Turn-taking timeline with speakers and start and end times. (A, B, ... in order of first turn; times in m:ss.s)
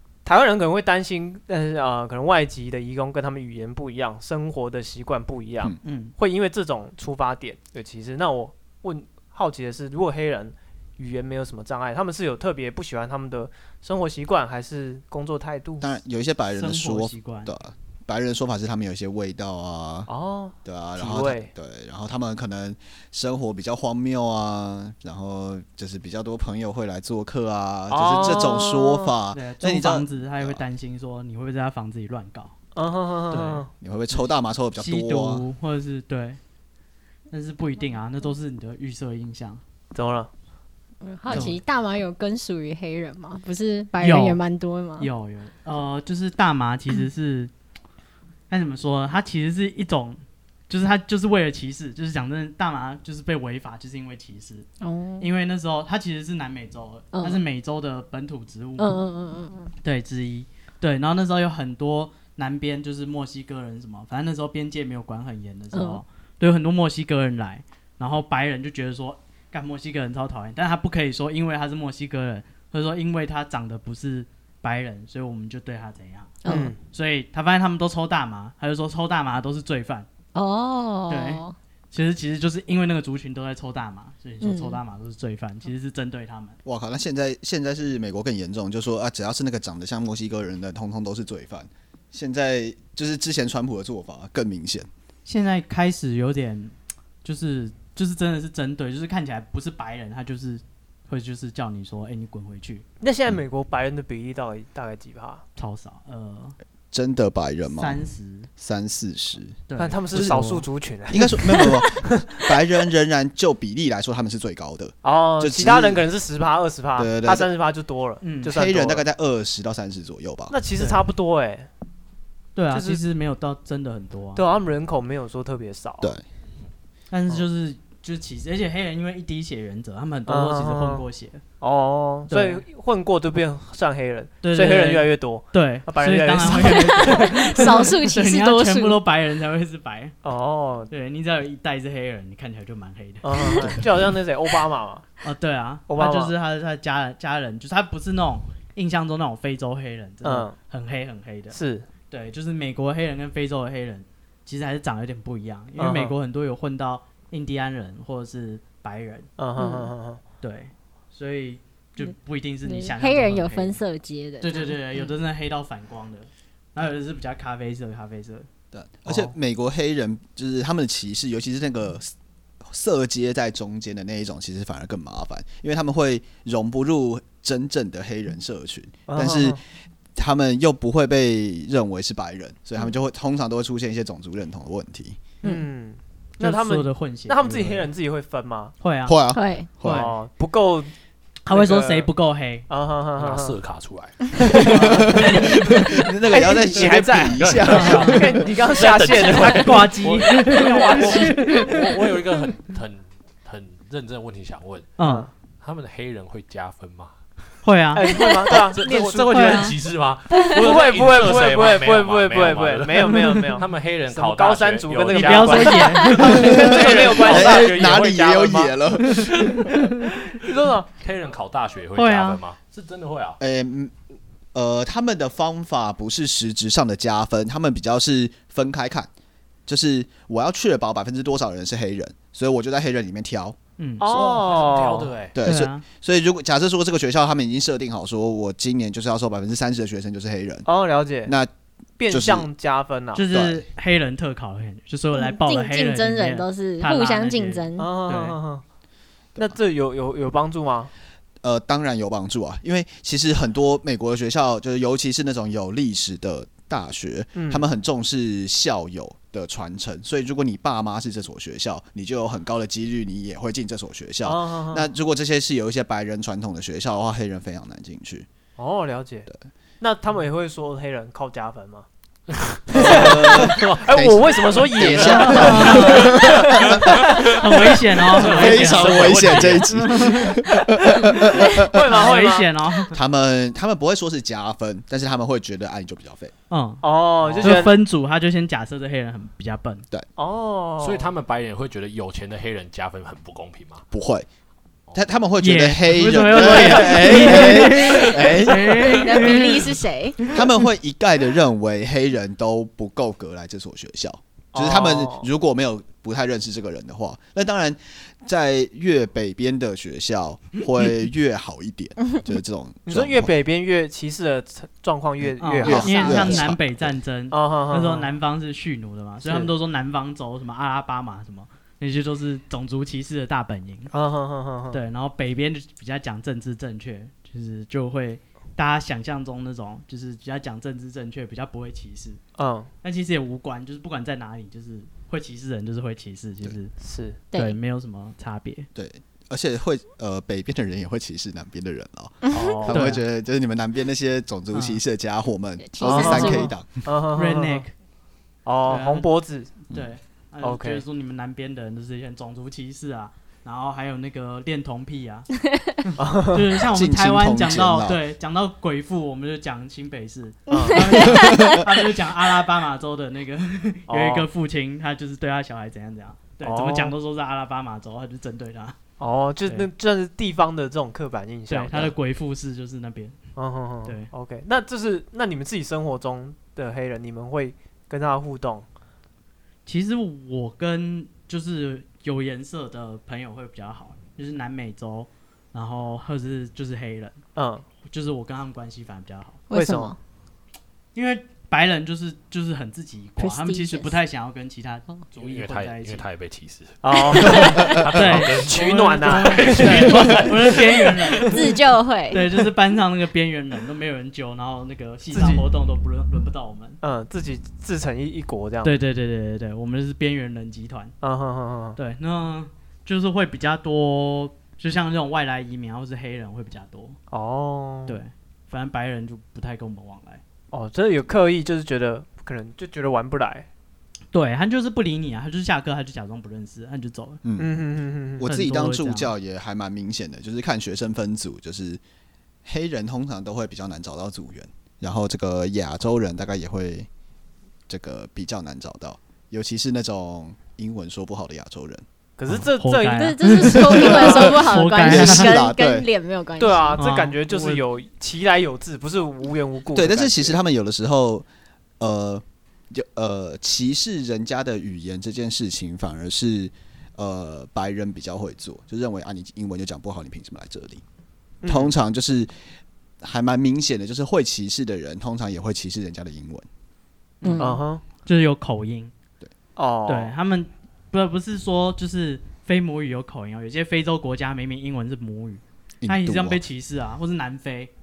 0:00.2-0:15.9 A
0:05.8-0:06.1 B
0:15.8-0:20.1 C
0:16.6-0:17.5 B
0:20.1-0:21.5 A
0:20.6-0:30.6 C
0:27.9-0:29.1 A
0:29.3-0:32.5 B
0:32.8-0:33.7 A
0:33.3-0:34.3 B
0:33.8-0:35.4 C
0:34.8-0:36.4 B
0:37.3-0:39.6 B
0:39.9-0:40.3 A
0:41.0-0:45.1 D
0:41.3-0:41.6 B
0:44.0-0:44.4 B
0:45.0-0:47.5 B
0:48.5-0:54.7 B
0:54.8-0:55.3 D
0:55.2-0:58.9 B
0:57.1-0:57.4 D
0:58.8-0:59.7 D
0:59.8-1:16.4 B
1:05.7-1:06.0 D
1:16.4-1:16.7 D
1:16.5-1:16.8 A
1:16.9-1:20.1 B
1:20.4-1:21.6 D
1:21.1-1:26.6 B
1:24.4-1:24.8 D
1:26.6-1:34.9 C
1:35.2-1:42.8 B
1:43.0-1:45.4 A
1:45.6-1:46.6 B
1:46.9-1:48.0 C
1:47.8-1:48.5 B
1:48.6-1:49.6 C
1:49.7-1:50.6 B
1:49.8-1:52.6 A
1:50.1-1:50.4 C
1:51.1-1:56.0 C
1:55.0-1:59.0 A
1:57.0-1:57.5 C
1:58.2-1:58.5 B
1:58.5-2:00.6 C
2:00.5-2:01.7 A
2:02.6-2:04.4 B
2:02.7-2:03.0 A
2:04.4-2:06.1 A
2:07.1-2:11.4 B
2:10.3-2:11.0 A
2:11.6-2:17.5 A
2:12.3-2:12.6 B
2:14.4-2:20.1 B
2:16.4-2:19.0 D
2:20.2-2:20.9 A
2:20.9-2:23.8 B
2:23.2-2:25.1 A
2:25.2-2:31.6 B
2:25.9-2:26.3 A
2:30.2-2:30.6 A
2:31.5-2:31.9 A
2:32.1-2:39.3 B
2:35.8-2:36.2 A
2:39.4-2:40.2 A
2:39.6-2:39.9 D
2:40.4-2:43.8 B
2:42.6-2:45.1 D
2:44.4-2:48.5 B
2:48.7-2:59.6 C
2:59.1-2:59.6 A
3:00.2-3:05.2 C
3:05.4-3:08.8 A
3:06.4-3:07.9 B
3:08.8-3:09.2 B
3:09.1-3:10.0 C
3:09.3-3:09.7 D
3:09.8-3:10.1 B
3:09.8-3:10.9 A
3:11.5-3:12.7 B
3:11.5-3:12.1 A
3:12.7-3:13.6 A
3:13.2-3:15.9 E
3:14.4-3:15.4 A
3:14.7-3:18.4 C
3:16.3-3:21.8 A
3:16.7-3:24.9 E
3:17.7-3:18.2 B
3:19.4-3:21.8 B
3:25.0-3:25.3 B
3:25.0-3:25.3 A
3:25.6-3:27.2 E
3:27.6-3:28.3 B
3:28.0-3:29.7 A
3:28.1-3:38.5 E
3:29.3-3:29.8 B
3:30.3-3:38.7 A
3:33.1-3:33.6 B
3:35.1-3:36.7 B
3:36.4-3:39.7 C
3:40.3-3:40.9 A
3:41.0-3:43.4 E
3:41.9-3:42.4 B
3:43.4-3:44.0 C
3:44.5-3:49.1 C
3:49.7-3:53.6 C
3:53.8-3:54.1 B
3:54.0-3:55.1 A
3:54.0-3:55.4 E
3:55.3-4:00.7 C
3:55.4-3:55.8 B
4:00.7-4:01.3 A
4:01.3-4:01.5 C
4:02.0-4:03.2 A
4:02.1-4:02.5 C
4:03.2-4:08.4 B
4:03.3-4:03.6 C
4:05.1-4:07.9 D
4:07.8-4:08.6 A
4:09.4-4:10.9 A
4:11.4-4:28.3 C
4:17.4-4:17.6 A
4:24.2-4:24.9 A
4:28.6-4:29.3 A
4:29.8-4:31.9 A
4:32.3-4:33.8 E
4:32.7-4:37.7 A
4:32.7-4:37.0 C
4:34.7-4:40.2 E
4:35.1-4:36.2 B
4:37.0-4:40.4 B
4:38.3-4:41.8 C
4:41.0-4:42.5 A
4:41.8-4:42.9 B
4:42.9-4:46.3 C
4:46.5-4:46.8 B
4:46.8-4:47.8 A
4:47.3-4:47.6 E
4:47.4-4:49.8 B
4:50.2-4:51.1 A
4:50.8-4:53.8 E
4:53.9-4:54.3 C
4:54.9-4:59.0 C
4:55.4-5:00.4 B
4:56.3-4:57.2 A
4:58.2-5:00.2 D
5:00.3-5:13.3 C
5:04.5-5:05.3 A
5:12.9-5:16.2 A
5:15.4-5:23.9 B
5:15.6-5:16.9 C
5:15.6-5:16.5 D
5:17.3-5:18.1 A
5:19.2-5:19.5 A
5:23.9-5:24.8 A
5:24.7-5:32.2 B
5:32.4-5:32.7 A
5:32.8-5:36.8 B
5:36.8-5:37.2 A
5:37.3-5:37.6 D
5:37.3-5:38.7 B
5:38.8-5:46.7 C
5:42.3-5:42.9 A
5:42.7-5:43.0 B
5:44.5-5:44.8 B
5:45.6-5:46.5 D
5:45.8-5:47.6 A
5:47.1-5:47.7 B
5:48.4-5:49.6 A
5:48.7-5:49.1 B
5:49.6-5:55.3 B
5:50.4-5:50.8 A
5:55.8-6:08.8 B
5:56.0-5:56.4 A
5:56.6-5:58.0 C
6:00.5-6:01.0 A
6:00.5-6:01.4 D
6:01.1-6:01.7 C
6:03.9-6:04.3 A
6:06.4-6:06.9 A
6:09.0-6:11.9 A
6:11.5-6:13.2 B
6:13.4-6:18.7 A
6:19.7-6:27.2 B
6:27.4-6:27.6 A
6:27.8-6:29.4 B
6:29.5-6:30.0 D
6:29.5-6:30.0 A
6:31.0-6:36.1 B
6:33.2-6:34.0 D
6:35.2-6:41.4 E
6:36.8-6:40.3 A
6:37.9-6:41.4 B
6:41.3-6:42.2 D
6:42.1-6:46.8 B
6:45.1-6:45.4 A
6:46.8-6:48.8 A
6:48.6-6:50.9 B
6:51.0-6:51.8 A
6:51.8-6:57.0 B
6:57.1-6:58.0 A
6:57.9-7:00.2 B
7:00.5-7:03.5 A
7:04.1-7:07.2 B
7:07.2-7:07.5 C
7:07.4-7:08.3 A
7:08.2-7:11.8 C
7:08.2-7:09.1 B
7:12.4-7:16.9 C
7:17.7-7:21.8 C
7:22.2-7:24.4 A
7:22.3-7:25.3 B
7:23.0-7:26.8 D
7:24.8-7:25.9 C
7:26.4-7:30.4 A
7:26.8-7:27.6 B
7:29.7-7:31.3 C
7:31.8-7:40.8 C
7:41.4-7:41.7 A
7:41.5-7:42.3 C
7:43.0-7:46.5 C
7:47.2-7:47.6 D
7:47.4-7:47.8 A
7:48.0-7:48.9 B
7:49.6-7:50.1 A
7:49.9-7:57.7 B
7:55.8-7:56.4 C